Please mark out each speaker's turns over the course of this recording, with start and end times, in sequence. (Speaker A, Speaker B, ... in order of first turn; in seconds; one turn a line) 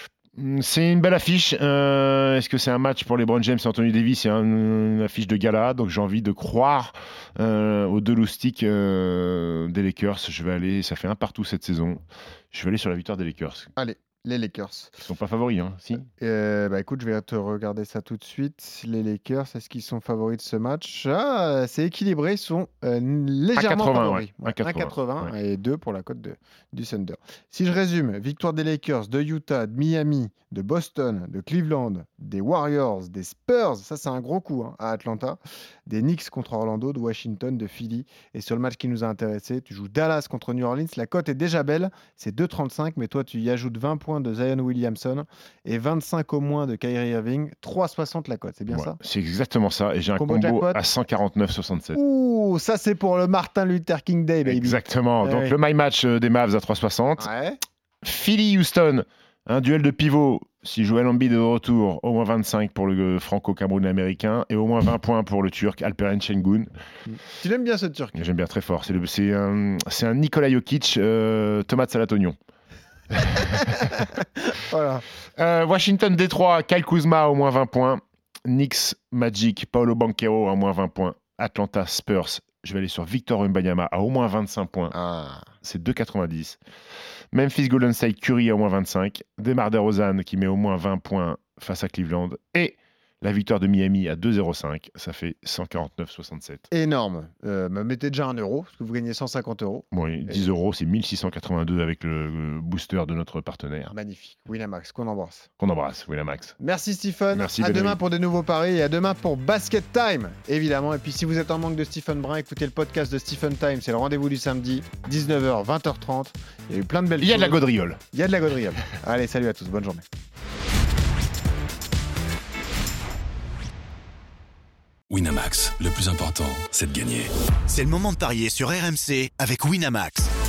Speaker A: 0.3-13.7
Speaker B: 13.8-14.9
Speaker A: 15.0-16.1
Speaker B: 16.2-49.0
Speaker A: 23.5-25.3
Speaker A: 48.7-52.0
Speaker B: 50.2-50.8
Speaker B: 51.9-55.5
Speaker A: 54.4-57.3
Speaker B: 57.2-57.6
Speaker A: 58.0-66.7
Speaker B: 67.0-68.2
Speaker A: 68.1-72.4
Speaker A: 73.1-74.0
Speaker B: 74.5-75.0
Speaker A: 75.4-84.9
Speaker B: 84.9-85.5
Speaker A: 85.6-86.6
Speaker A: 87.3-96.6
Speaker B: 96.7-100.5
Speaker A: 99.9-103.9
Speaker B: 103.9-105.5
Speaker A: 105.6-106.6
Speaker B: 106.6-120.0
Speaker A: 107.3-108.0
Speaker A: 117.2-118.0
Speaker C: 125.1-127.3
Speaker D: 127.7-130.3